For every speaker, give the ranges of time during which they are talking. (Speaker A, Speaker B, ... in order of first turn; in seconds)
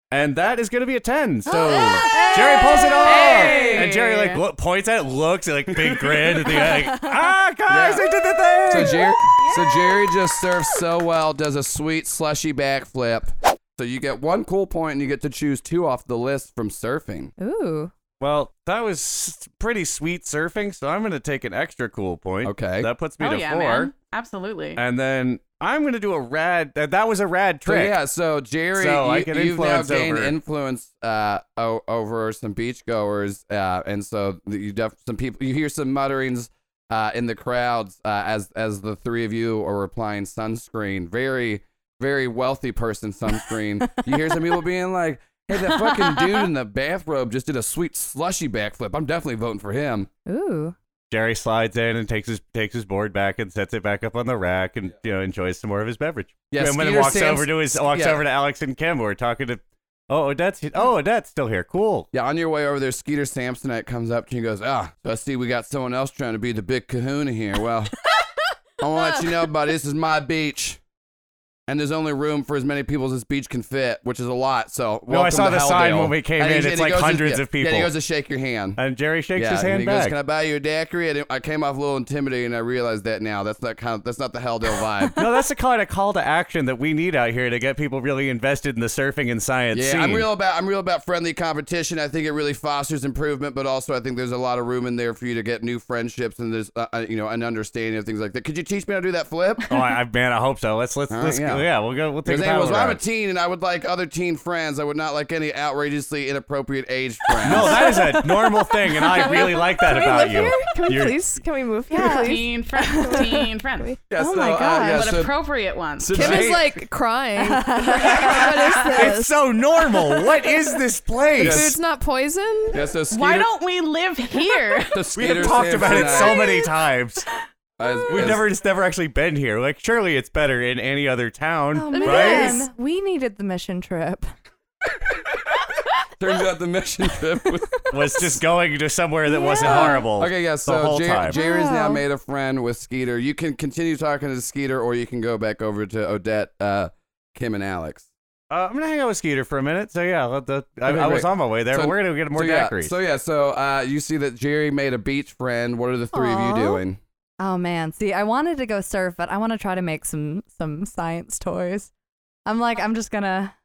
Speaker A: 0.1-9.2, 18.2-23.9, 24.8-27.9, 28.7-30.3, 51.1-62.1, 75.1-77.9, 78.8-80.1, 85.2-90.2, 99.7-103.0, 107.4-111.2, 118.9-121.7, 125.2-127.2, 128.1-132.6, 137.9-141.4, 148.5-152.9
Speaker B: 1.5-3.9, 6.6-7.2, 8.8-10.2, 17.4-17.9, 45.7-46.4, 50.3-50.7, 107.6-108.1, 111.9-112.4, 114.2-115.1, 117.4-119.0, 131.7-134.2, 139.3-140.0, 141.3-142.0, 156.1-156.8, 157.4-161.9, 162.4-163.5
Speaker C: 3.2-4.0, 7.7-8.1, 8.7-17.3, 22.4-22.9, 27.6-50.1, 56.5-58.2, 62.1-68.0, 68.8-70.8, 71.7-78.8, 79.3-85.2, 89.7-99.7, 101.1-101.7, 102.2-107.8, 114.1-115.3, 116.0-116.8, 121.4-121.8, 122.7-123.5, 124.9-126.5, 127.8-128.4, 136.2-138.3, 139.6-148.1, 150.8-157.0
Speaker D: 23.2-24.8, 111.9-113.9, 114.8-116.5, 123.1-125.0
Speaker E: 109.0-114.0, 116.1-120.2, 121.4-122.8, 131.9-132.7